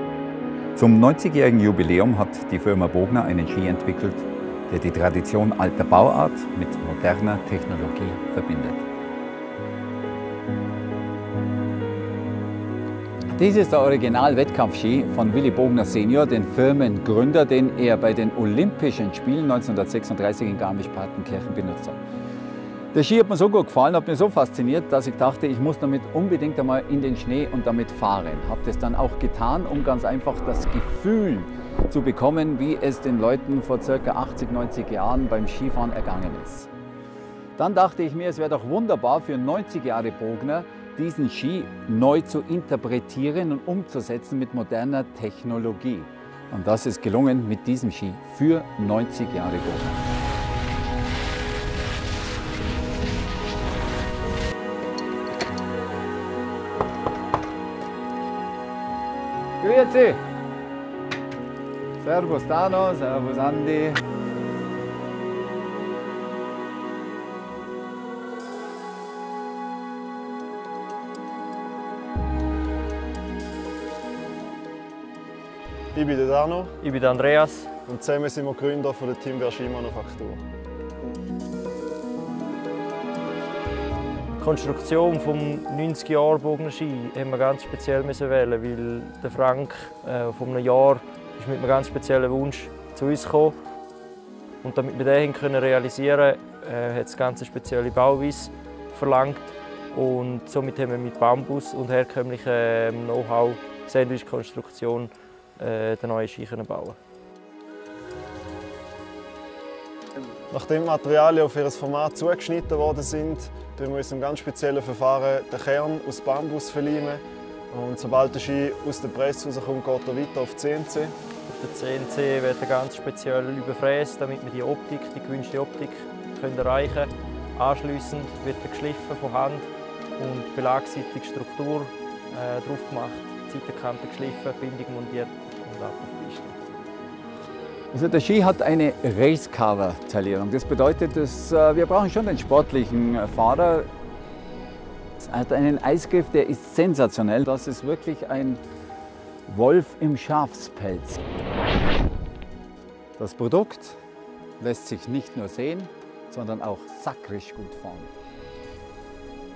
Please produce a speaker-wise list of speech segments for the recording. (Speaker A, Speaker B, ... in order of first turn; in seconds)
Speaker A: 0.8-8.8, 13.3-22.0, 22.9-36.7, 37.5-50.0, 59.6-60.2, 62.0-64.0, 137.9-143.9, 145.2-148.6, 149.5-151.2, 153.2-154.0, 154.6-158.1
Speaker B: 75.9-76.7, 77.9-80.4, 110.5-121.1
Speaker C: 76.8-77.7, 84.3-93.5, 94.6-107.0, 121.5-136.6